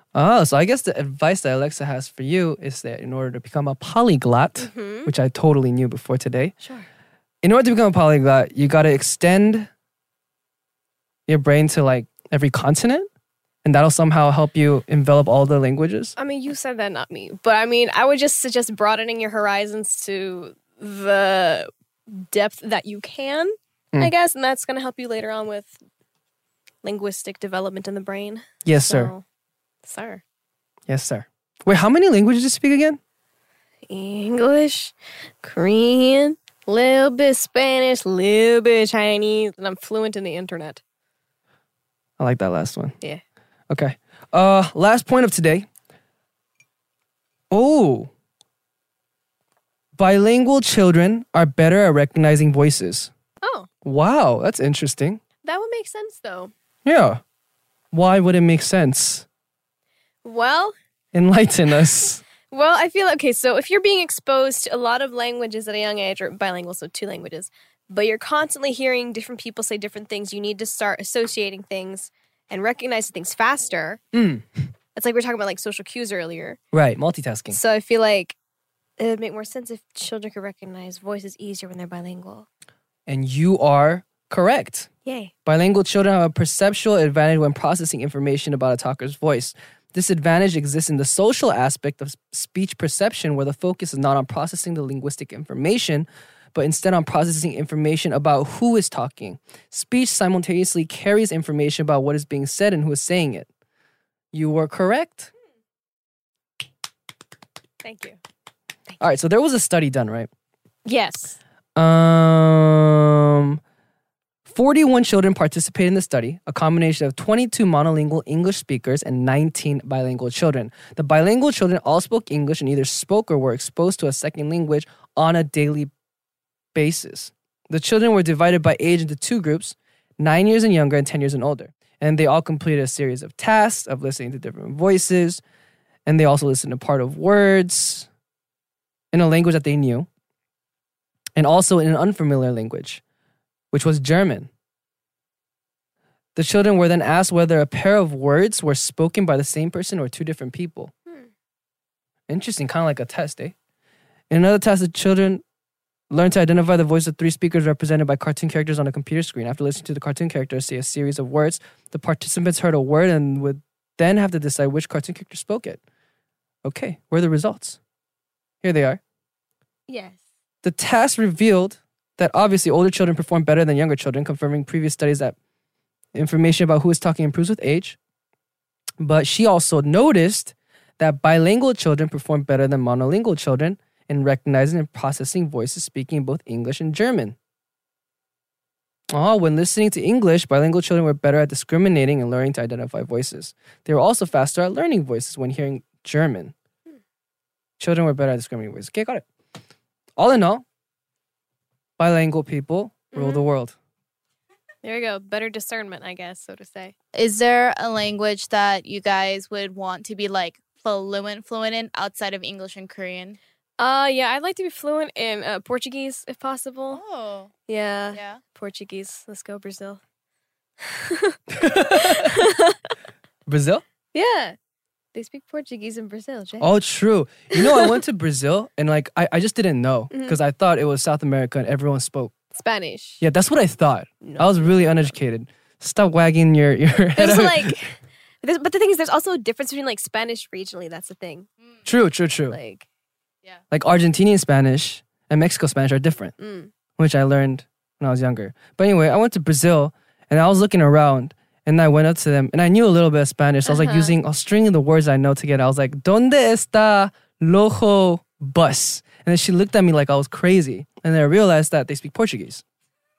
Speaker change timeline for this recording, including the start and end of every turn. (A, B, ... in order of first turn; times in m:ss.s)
0:00.1-0:06.5 A
0:04.6-0:05.1 B
0:06.6-0:06.9 B
0:07.4-0:09.7 A
0:11.3-0:13.1 A
0:13.6-0:16.1 A
0:16.2-0:25.8 B
0:26.8-0:29.2 B
0:28.6-0:29.1 A
0:29.8-0:30.2 B
0:30.9-0:33.0 A
0:33.9-0:40.8 B
0:42.2-0:43.0 A
0:43.7-0:45.7 A
0:47.5-0:48.1 A
0:50.0-0:53.1 A
0:53.4-0:53.7 B
0:53.8-0:55.2 A
0:55.4-0:56.5 B
0:56.8-0:57.2 A
0:57.9-0:59.3 A
1:00.2-1:00.8 B
1:01.1-1:02.2 A
1:02.5-1:14.0 B
1:14.1-1:14.5 A
1:15.0-1:16.6 B
1:16.7-1:17.6 A
1:17.5-1:18.4 B
1:19.0-1:22.5 B
1:23.1-1:24.9 A
1:25.0-1:25.3 B
1:25.5-1:43.5 A
1:44.3-1:45.3 A
1:47.8-1:48.2 B
1:49.0-1:50.3 A
1:50.9-1:51.4 B
1:51.8-1:53.6 A
1:54.5-2:05.9 A
2:06.7-2:15.4 A
2:16.0-2:18.1 A
2:19.1-2:20.1 A
2:21.4-2:23.0 A
2:23.7-2:24.5 A
2:26.4-2:30.9 A
2:32.3-2:33.6 A
2:34.3-2:35.4 A
2:36.1-2:45.8 A
2:46.6-2:47.8 A
2:48.6-2:49.0 A
2:49.9-2:50.2 B
2:50.6-2:55.4 A
2:56.1-2:58.0 A
2:59.0-3:07.4 A
3:09.1-3:16.5 A
3:17.8-3:19.2 A
3:20.2-3:20.6 A
3:22.0-3:23.8 A
3:23.1-3:23.4 B
3:24.8-3:26.9 B
3:27.1-3:33.4 C
3:33.8-3:37.0 B
3:36.9-3:37.5 C
3:37.7-3:40.0 B
3:38.1-3:38.4 C
3:40.8-3:42.9 B
3:41.5-3:42.5 A
3:43.4-3:43.8 A
3:44.1-3:44.6 B
3:45.1-3:46.7 B
3:46.6-3:52.3 A
3:47.5-3:48.0 B
3:50.1-3:50.4 B
3:52.5-3:53.2 B
3:53.2-3:57.8 A
3:54.2-3:55.1 B
3:57.2-4:01.5 B
4:01.9-4:02.6 A
4:02.5-4:02.9 B
4:03.7-4:06.3 A
4:06.4-4:06.7 B
4:07.0-4:22.6 A
4:13.7-4:14.2 B